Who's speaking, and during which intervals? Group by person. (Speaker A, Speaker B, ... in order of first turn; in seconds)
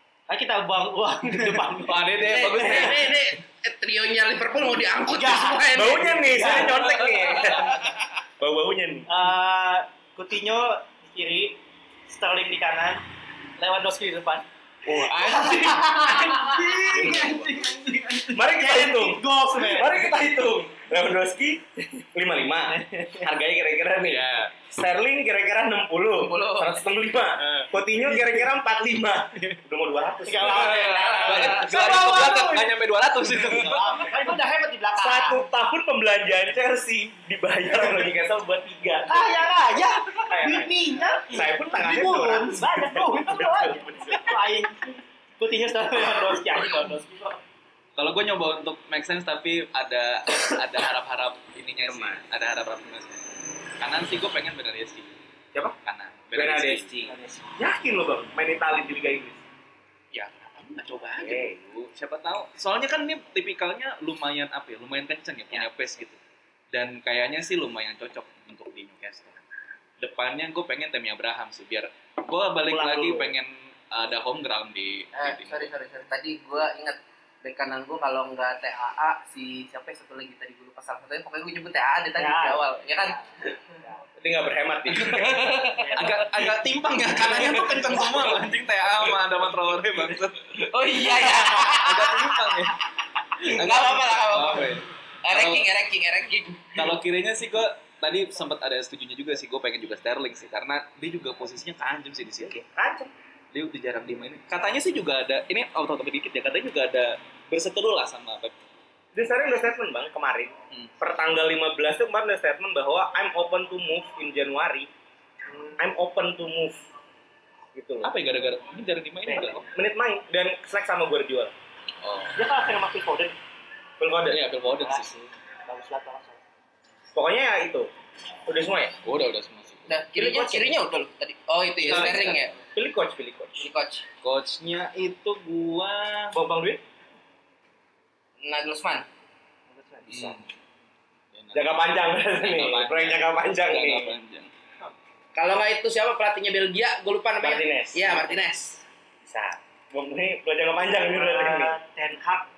Speaker A: 0.3-3.0, 5.1-6.9, 9.1-13.0, 13.6-20.1, 22.7-23.3, 30.2-35.4, 39.1-47.4, 57.0-57.5, 72.7-73.3, 82.2-84.0, 85.7-86.2, 115.5-115.8, 119.3-119.5, 122.3-123.4, 124.6-126.4, 139.7-140.1, 151.0-152.5
Speaker B: 1.3-3.3, 7.2-7.5, 24.0-24.5, 27.4-28.3, 31.2-34.2, 48.0-53.2, 53.8-55.1, 55.8-56.9, 60.1-66.2, 66.7-69.4, 70.0-75.7, 85.9-92.7, 93.4-95.7, 96.7-102.6, 103.5-108.5, 118.0-119.7, 122.0-122.4, 124.3-125.1, 129.0-129.9, 131.8-132.5, 134.2-136.4, 140.1-140.5, 141.3-144.5
Speaker C: 2.2-6.9, 26.1-26.8, 30.5-31.5, 75.1-83.2, 84.9-86.1, 90.6-92.5, 93.4-94.7, 95.2-96.8, 129.9-132.5, 133.6-134.0, 138.4-139.1, 145.3-148.8
Speaker D: 5.7-7.8, 8.4-9.1, 14.9-15.4, 16.8-17.7, 18.3-31.7, 35.0-39.5, 40.2-44.4, 51.8-52.2, 56.3-59.4, 61.2-61.6, 84.2-85.6, 102.4-103.1, 109.1-114.9, 115.8-116.8, 117.7-118.1, 119.7-121.5, 124.0-124.4, 127.1-127.9, 128.5-129.0, 130.2-130.7, 131.8-133.6, 136.3-136.8, 140.0-140.4, 141.5-144.1, 147.4-148.2, 149.2-151.8